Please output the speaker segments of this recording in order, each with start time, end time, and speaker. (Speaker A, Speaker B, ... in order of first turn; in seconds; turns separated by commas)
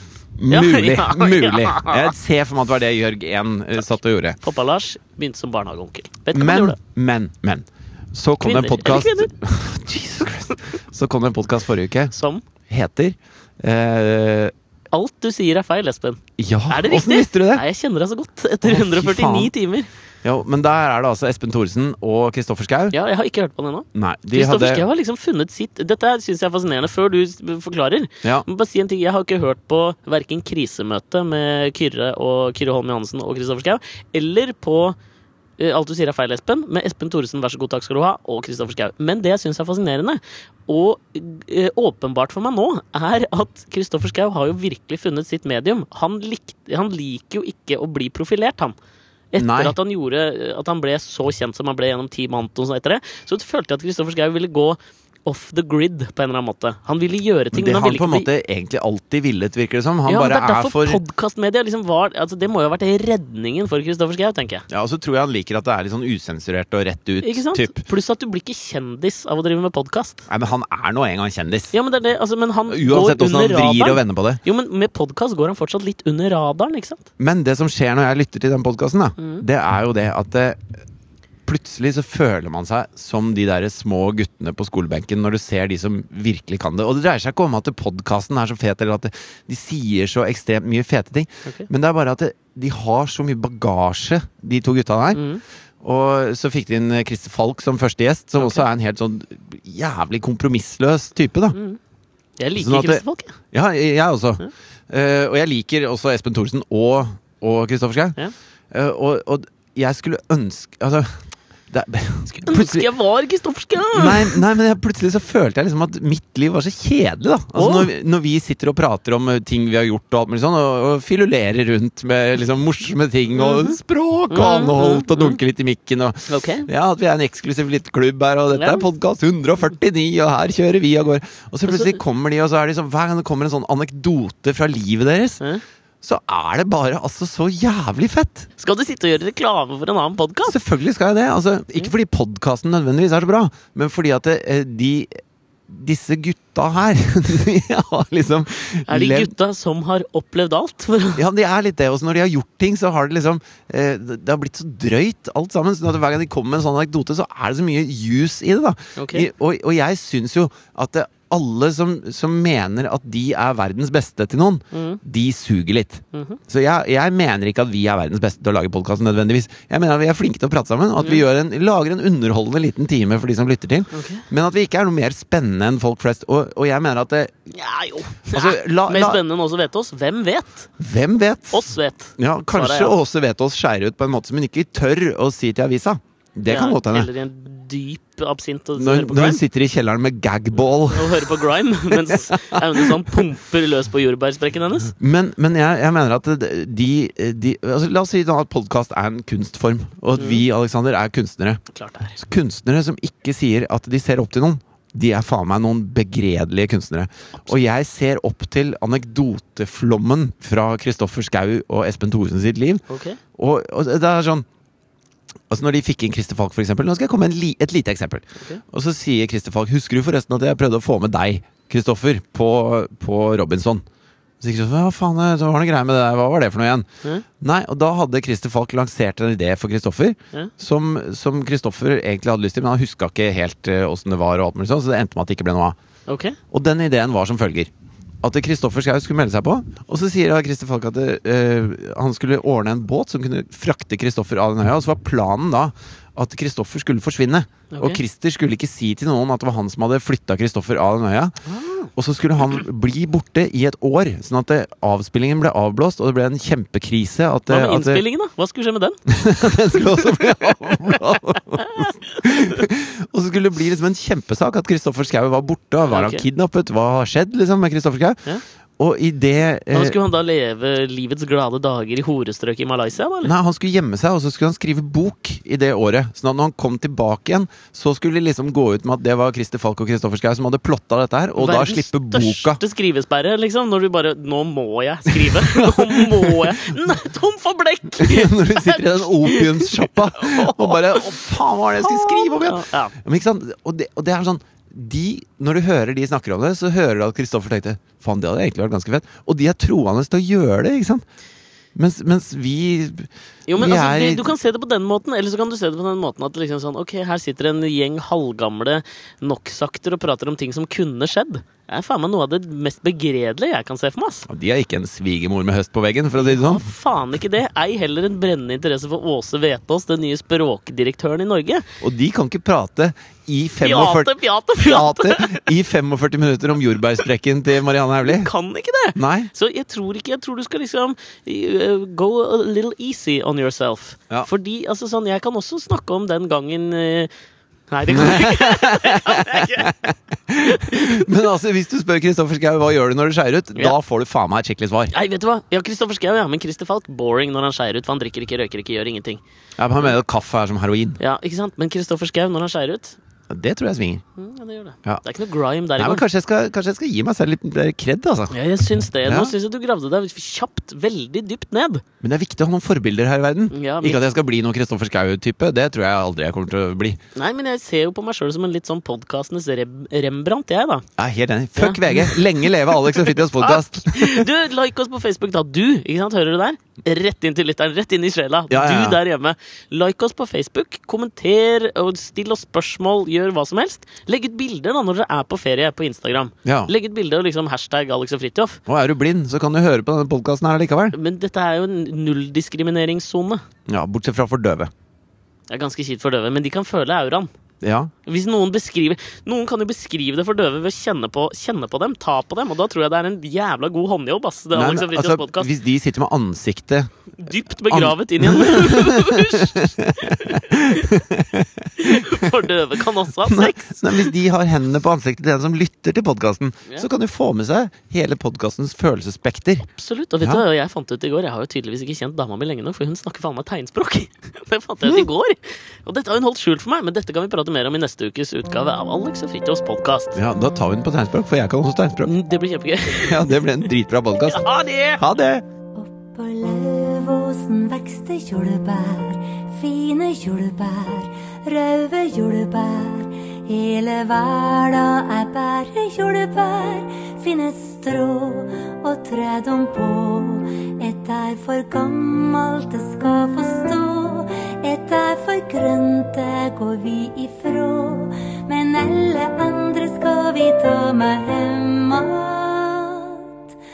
Speaker A: 0.4-4.4, Speaker B: 0.5-2.1, Speaker B: 4.4-6.8, Speaker A: 6.3-12.1, Speaker B: 8.4-9.3, Speaker B: 12.1-12.4, Speaker A: 12.7-14.5, Speaker B: 14.9-19.9, Speaker A: 16.4-17.6, Speaker A: 18.6-19.5, Speaker A: 20.2-22.9, Speaker B: 22.9-35.0, Speaker A: 23.9-24.8, Speaker B: 35.6-48.7, Speaker B: 49.3-58.3, Speaker A: 49.4-49.8, Speaker A: 57.5-61.0, Speaker B: 60.1-64.7, Speaker A: 64.7-67.8, Speaker B: 67.2-70.2, Speaker A: 70.3-71.7, Speaker B: 71.7-77.1, Speaker A: 72.7-74.4, Speaker A: 77.2-80.7, Speaker B: 79.2-79.4, Speaker A: 81.5-95.2, Speaker B: 95.1-95.4, Speaker A: 95.8-101.6, Speaker B: 98.4-98.6, Speaker B: 101.5-101.8, Speaker B: 102.4-103.3, Speaker A: 102.5-108.2, Speaker A: 108.7-111.2, Speaker A: 111.7-112.9, Speaker B: 112.3-114.4, Speaker A: 113.9-135.4, Speaker B: 117.5-117.9, Speaker B: 123.4-123.7, Speaker B: 124.3-125.4, Speaker B: 126.3-126.7, Speaker B: 128.5-128.8, Speaker B: 131.7-131.9, Speaker A: 136.0-138.5, Speaker B: 138.6-140.6, Speaker A: 140.5-145.1, Speaker A: 145.7-149.3, Speaker B: 148.9-151.2, Speaker A: 151.2-177.3, Speaker B: 159.0-159.3, Speaker B: 164.7-165.0, Speaker B: 166.1-166.4, Speaker B: 173.9-174.2, Speaker B: 177.5-180.7, Speaker A: 178.3-179.2, Speaker A: 180.8-187.1, Speaker B: 181.5-182.9, Speaker B: 186.5-189.4, Speaker A: 188.8-191.3, Speaker B: 190.9-194.9, Speaker A: 191.9-193.2, Speaker A: 195.0-201.6, Speaker B: 200.2-200.4, Speaker B: 201.7-202.2, Speaker A: 202.2-212.8, Speaker B: 212.9-213.2, Speaker A: 213.3-214.4, Speaker A: 215.5-223.8, Speaker A: 224.4-226.9, Speaker A: 227.4-235.8, Speaker B: 236.1-236.4, Speaker A: 236.5-237.7, Speaker A: 238.2-251.3, Speaker B: 247.7-248.0, Speaker B: 251.5-251.9, Speaker A: 251.9-258.0, Speaker B: 257.5-259.0, Speaker A: 259.1-268.2, Speaker B: 259.7-260.1, Speaker B: 261.6-262.6, Speaker B: 265.9-266.2, Speaker A: 268.8-270.0, Speaker B: 269.7-273.3, Speaker A: 273.2-282.6, Speaker B: 281.4-291.1, Speaker A: 285.1-286.6, Speaker A: 288.0-301.0, Speaker B: 291.8-292.9, Speaker A: 301.7-304.3, Speaker B: 303.5-314.3, Speaker A: 314.3-316.6, Speaker B: 316.1-321.6, Speaker A: 321.8-328.3, Speaker B: 323.6-325.5, Speaker B: 328.0-337.1, Speaker A: 328.9-329.3, Speaker B: 337.7-341.1, Speaker A: 337.9-344.9, Speaker B: 344.9-349.2, Speaker A: 349.6-351.0, Speaker B: 351.0-353.0, Speaker A: 353.3-354.0, Speaker B: 354.2-356.0, Speaker A: 355.8-358.3, Speaker B: 358.3-361.8, Speaker A: 359.0-359.3, Speaker A: 362.0-367.0, Speaker B: 363.5-364.0, Speaker B: 367.1-370.9, Speaker A: 371.0-374.3, Speaker B: 371.6-388.6, Speaker A: 378.5-379.0, Speaker A: 386.4-386.7, Speaker A: 388.7-390.9, Speaker B: 390.9-393.4, Speaker A: 393.7-394.7, Speaker B: 395.5-397.3, Speaker A: 397.6-397.9, Speaker B: 398.1-405.5, Speaker A: 404.5-406.9, Speaker B: 407.2-411.0, Speaker A: 407.7-412.4, Speaker B: 411.8-414.1, Speaker A: 413.2-419.6, Speaker B: 419.6-430.2, Speaker A: 430.1-432.1, Speaker B: 432.0-433.4, Speaker A: 433.0-435.4, Speaker B: 434.2-435.0, Speaker C: 435.7-463.5